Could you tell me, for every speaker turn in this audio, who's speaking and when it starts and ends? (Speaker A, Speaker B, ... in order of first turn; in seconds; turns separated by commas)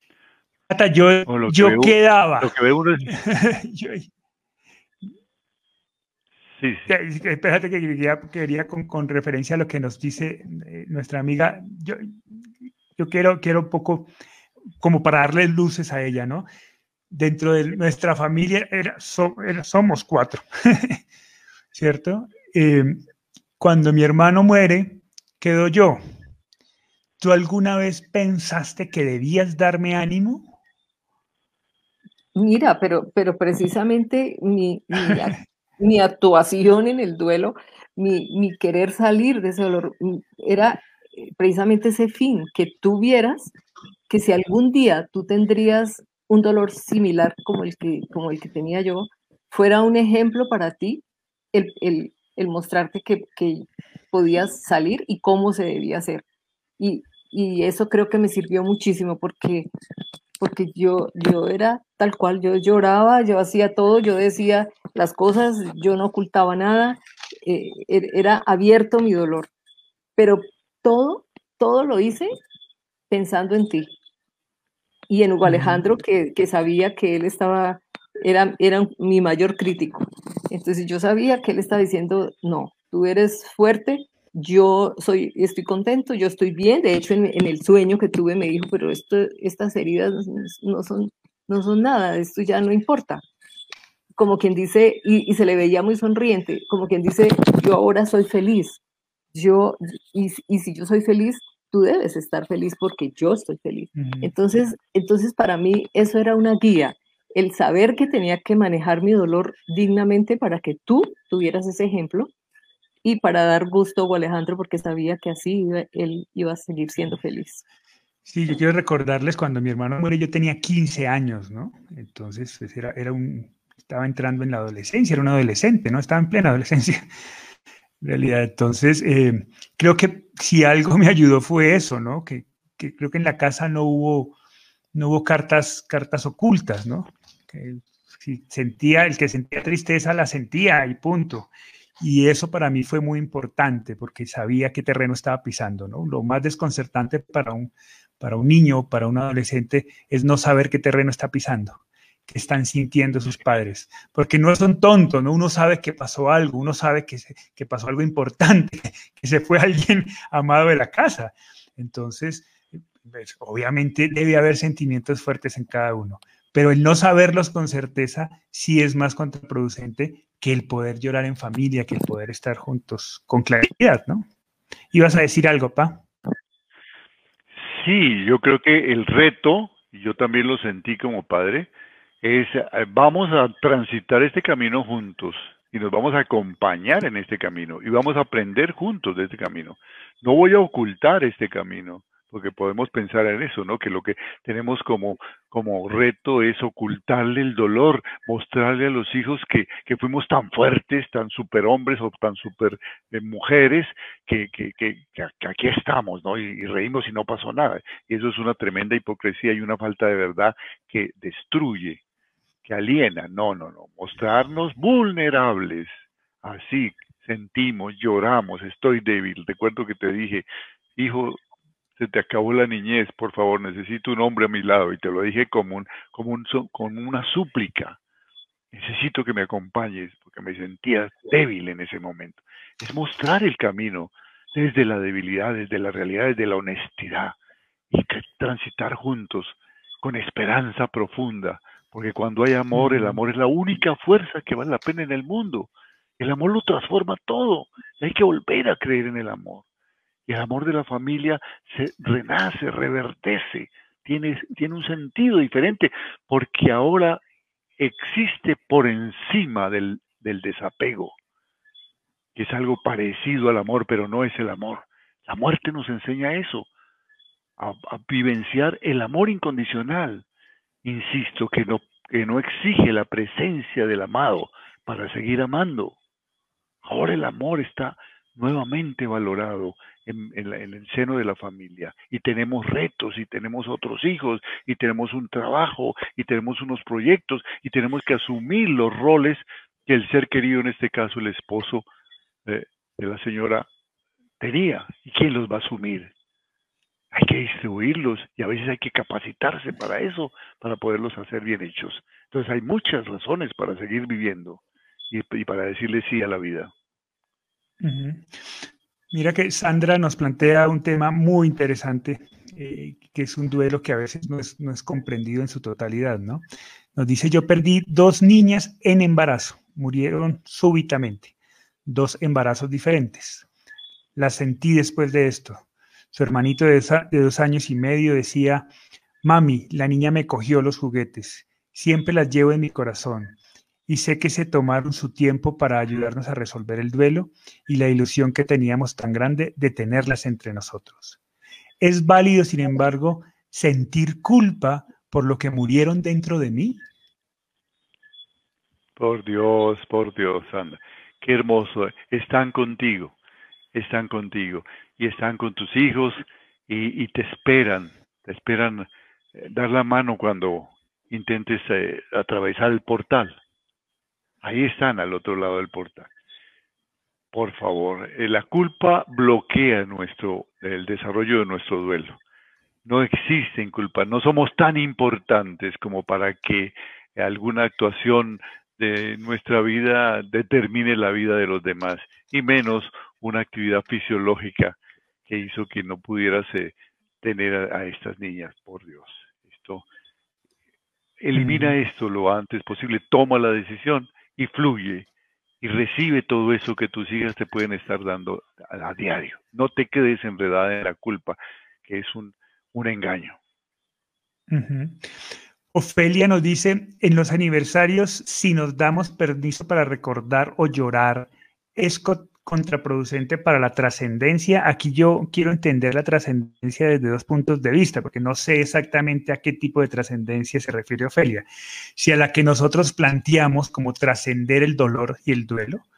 Speaker A: 0.7-4.1, Speaker B: 1.3-3.1, Speaker B: 6.6-6.9, Speaker A: 6.9-12.2, Speaker A: 12.9-14.1, Speaker A: 14.8-16.5, Speaker A: 17.1-21.0, Speaker A: 21.7-23.0, Speaker A: 23.6-26.0, Speaker A: 27.2-30.5, Speaker C: 32.3-43.5, Speaker C: 44.1-56.2, Speaker C: 56.8-59.7, Speaker C: 60.4-69.5, Speaker C: 70.2-72.3, Speaker C: 73.1-73.9, Speaker C: 75.1-93.2, Speaker A: 75.4-75.8, Speaker C: 94.2-98.8, Speaker C: 99.3-112.3, Speaker A: 104.0-104.3, Speaker C: 113.0-117.6, Speaker A: 118.2-127.1, Speaker A: 128.0-134.3, Speaker A: 134.9-174.2, Speaker A: 174.9-176.1, Speaker B: 177.6-181.7, Speaker B: 182.2-212.0, Speaker B: 212.6-221.4, Speaker B: 222.0-228.0, Speaker B: 228.7-237.4, Speaker B: 237.9-249.6, Speaker A: 242.7-243.2, Speaker B: 250.3-257.2, Speaker B: 257.8-261.1, Speaker B: 262.3-266.7, Speaker B: 267.6-270.2, Speaker B: 270.8-276.0, Speaker B: 276.8-291.9, Speaker B: 292.4-293.7, Speaker B: 294.4-296.1, Speaker B: 297.1-306.7, Speaker A: 307.8-321.3, Speaker A: 321.8-323.4, Speaker A: 324.1-328.7, Speaker A: 329.2-341.2, Speaker A: 341.8-346.9, Speaker B: 349.0-353.1, Speaker B: 353.7-363.4, Speaker B: 364.4-366.1, Speaker B: 367.3-372.2, Speaker B: 372.8-389.9, Speaker B: 391.2-395.1, Speaker A: 391.3-391.8, Speaker B: 395.6-403.4, Speaker A: 404.5-405.1, Speaker A: 405.7-421.4, Speaker A: 421.9-425.8